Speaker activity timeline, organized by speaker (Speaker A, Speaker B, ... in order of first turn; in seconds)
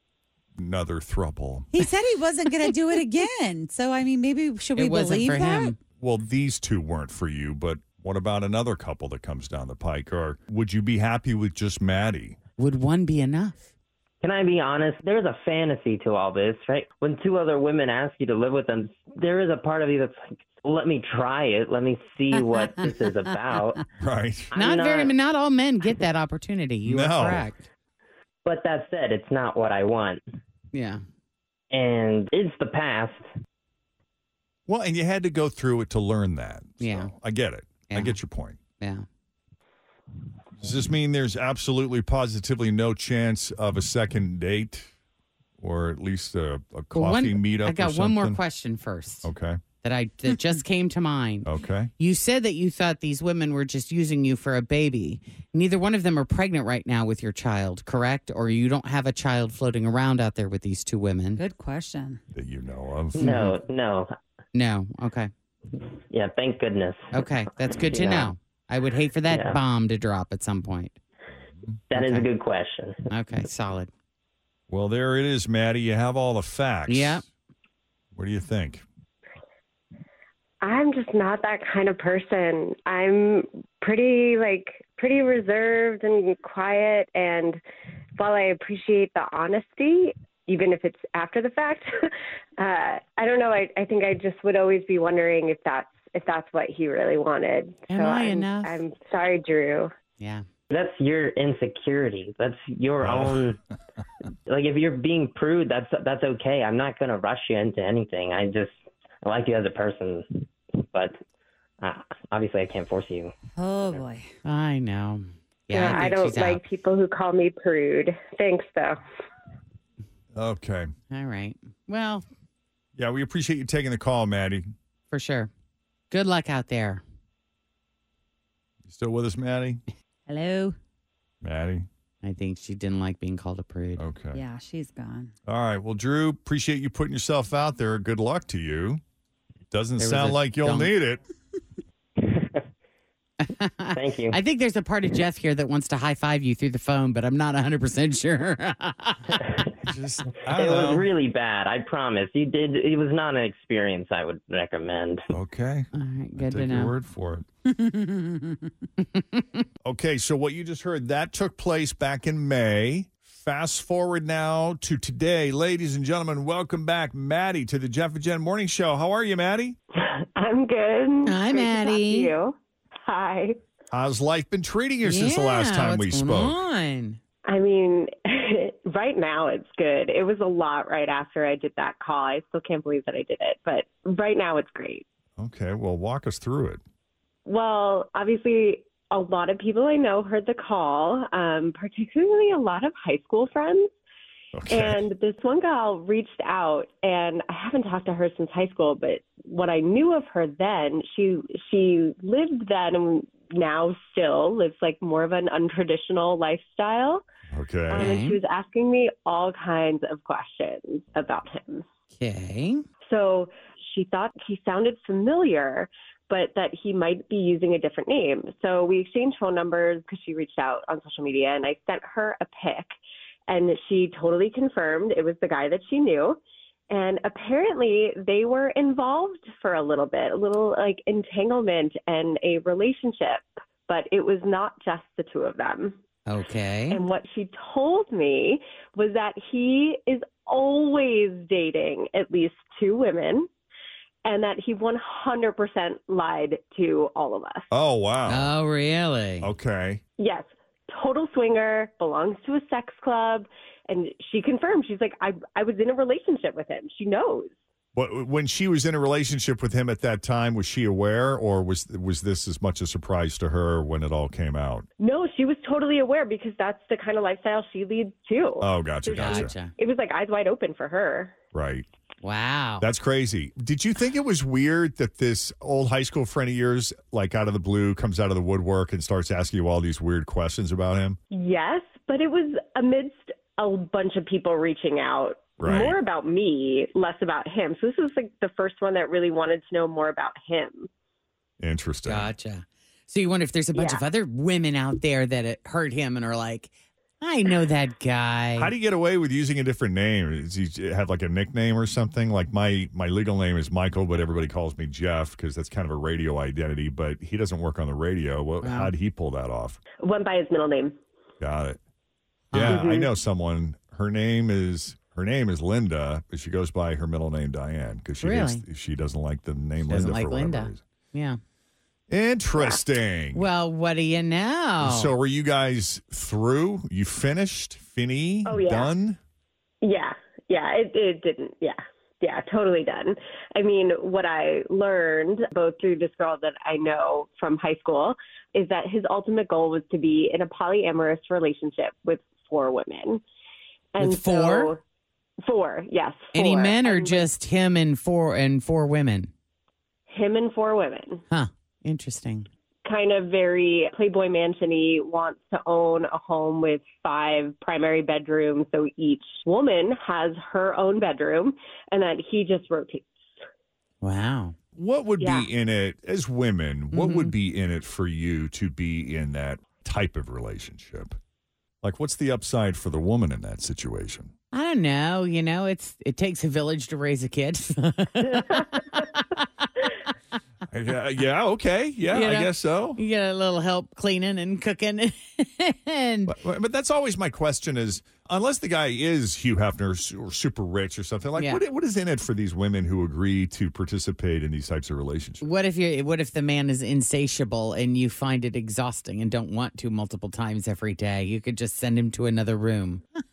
Speaker A: 0.6-1.7, 6.0-12.4, 24.0-24.5, 26.9-27.5, 34.7-38.6, 40.6-44.9, 45.6-48.4, 49.2-49.6, 51.4-51.9, 62.3-63.3, 74.7-77.2, 78.1-78.8, 103.0-103.5, 120.3-120.9, 123.0-124.7, 128.8-129.8, 131.4-131.9, 134.0-134.4, 135.4-139.0, 139.7-141.2, 149.8-151.1, 155.3-157.5, 159.8-169.8, 173.9-176.6, 185.4-186.8, 194.5-195.0, 207.5-208.1, 247.7-248.5, 249.4-250.0, 257.9-264.9, 268.6-269.5, 271.5-271.9, 272.8-281.2, 285.6-286.0, 291.6-292.3, 298.6-309.8, 311.4-311.8, 312.5-320.8, 322.1-323.4, 324.8-329.2, 364.7-371.1, 371.8-374.3, 380.7-383.0, 386.2-395.4
Speaker B: 1.7-5.8, 61.4-62.2, 113.5-114.3, 130.3-130.7, 134.3-135.3
Speaker C: 4.8-5.8, 12.6-13.7, 24.5-27.6, 30.7-31.0, 36.8-37.1, 37.9-38.2, 38.8-39.0, 46.9-49.3, 49.8-51.5, 52.0-61.4, 63.2-63.5, 64.5-65.3, 67.1-71.0, 71.9-72.3, 73.1-73.9, 76.9-77.2, 97.9-98.8, 100.2-100.4, 114.4-116.6, 121.1-122.2, 125.1-125.5, 126.1-127.0, 132.2-134.0, 140.0-140.9, 143.4-149.4, 155.9-156.9, 159.0-159.6, 171.2-172.3, 175.0-177.2, 207.9-208.4, 212.2-212.8, 236.3-237.0, 248.3-249.5, 269.1-269.7, 272.2-272.9, 292.0-298.7, 308.6-308.9, 312.5-312.9, 318.2-318.6, 319.9-321.4, 323.3-325.1, 344.0-344.7, 346.3-349.3, 351.3-352.5, 364.0-364.6, 366.9-367.3, 374.5-379.4, 382.1-386.4, 391.4-391.6, 395.4-403.0
Speaker D: 14.2-23.8, 24.5-25.1, 28.4-30.2, 31.7-33.2, 63.1-64.1, 66.1-67.1, 67.9-68.3, 69.3-69.5, 71.9-73.0, 100.7-103.6, 104.5-111.2, 111.8-113.3, 142.2-142.6, 143.9-144.4, 150.5-155.3
Speaker E: 80.6-87.6, 88.2-99.9, 115.7-119.0, 170.0-173.6, 177.5-185.0, 187.4-193.9, 194.7-207.2, 207.9-211.8, 213.0-222.9, 223.5-226.4, 226.9-236.0, 236.9-243.5, 244.2-247.7, 250.2-257.6, 265.0-271.3, 281.3-290.9, 293.7-294.0, 310.0-310.9, 312.6-313.1, 328.4-328.9, 329.8-343.2, 343.9-344.8, 345.4-347.3, 350.1-351.2, 352.8-363.1, 365.2-365.5, 378.3-379.0